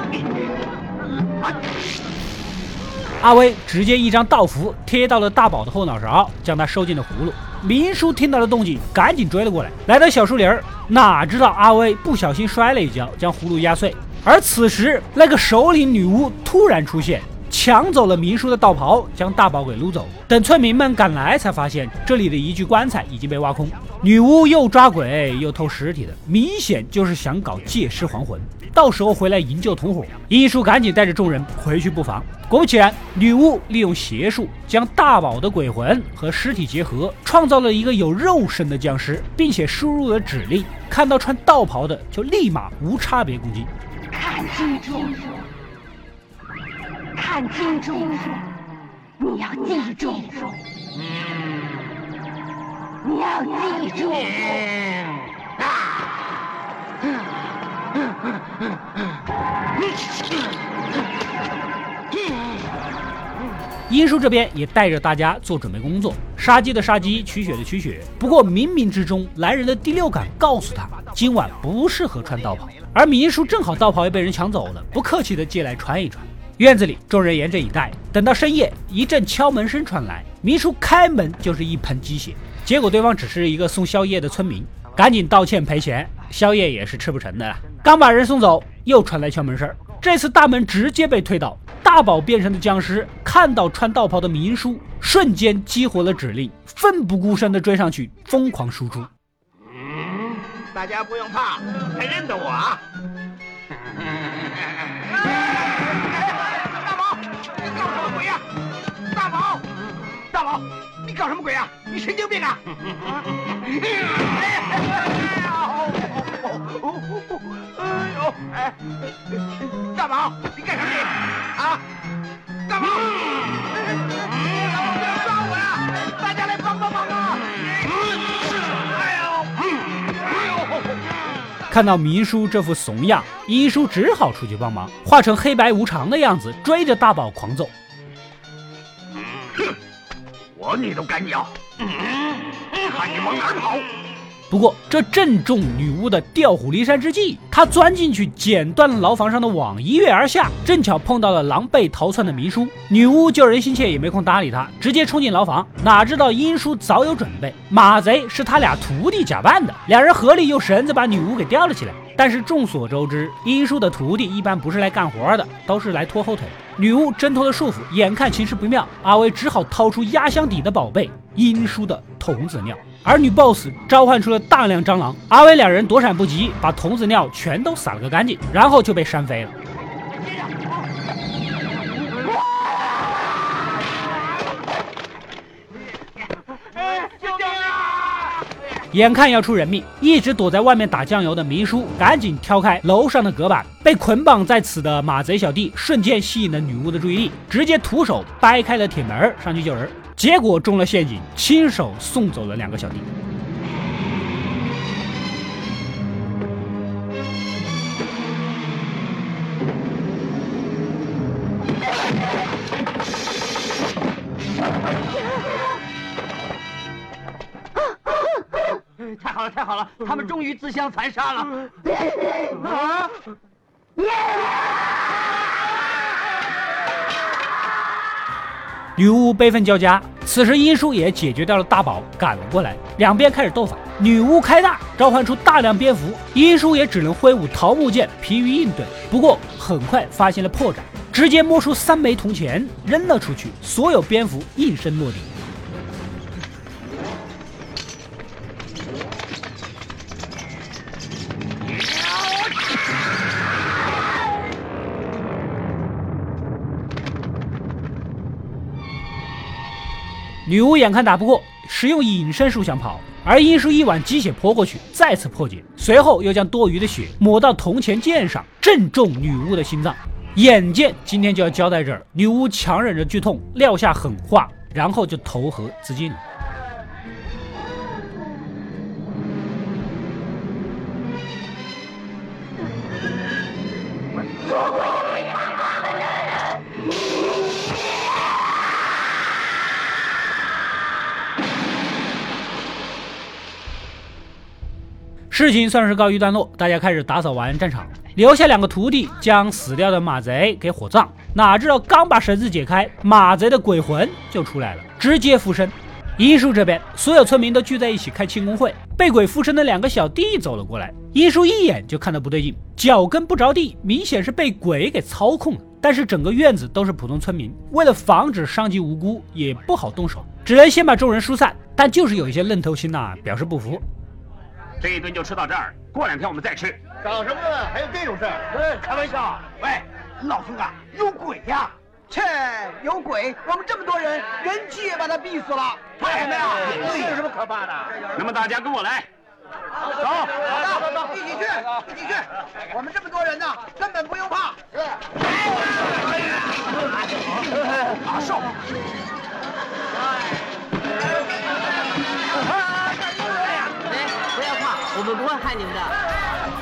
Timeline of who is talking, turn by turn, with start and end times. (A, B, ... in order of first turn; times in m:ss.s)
0:03.2-0:43.7 A
0:44.1-0:45.5 B
0:47.2-0:48.5 B
0:49.2-0:50.6 B
0:53.0-0:54.8 B
1:03.9-1:39.1 A
1:12.6-1:12.9 C
1:40.7-1:42.8 C
1:45.1-1:48.5 C
1:49.1-1:49.7 C
1:50.3-1:52.6 C
1:53.5-1:58.8 C
1:59.7-2:01.8 C
2:02.7-2:08.1 C
2:08.7-2:10.9 C
2:11.7-2:17.7 A
2:20.6-2:21.6 D
2:22.7-2:23.9 D
2:24.5-2:59.5 A
3:06.9-3:08.3 E
3:08.9-3:23.1 A
3:39.0-3:41.8 E
3:49.0-4:05.4 A
4:20.5-4:36.2 A
4:55.3-5:23.8 A
5:24.8-5:26.8 D
5:27.0-5:37.9 C
5:36.7-5:37.1 D
5:38.1-5:39.1 D
5:40.0-5:40.5 D
5:40.4-5:44.6 C
5:53.8-5:56.0 E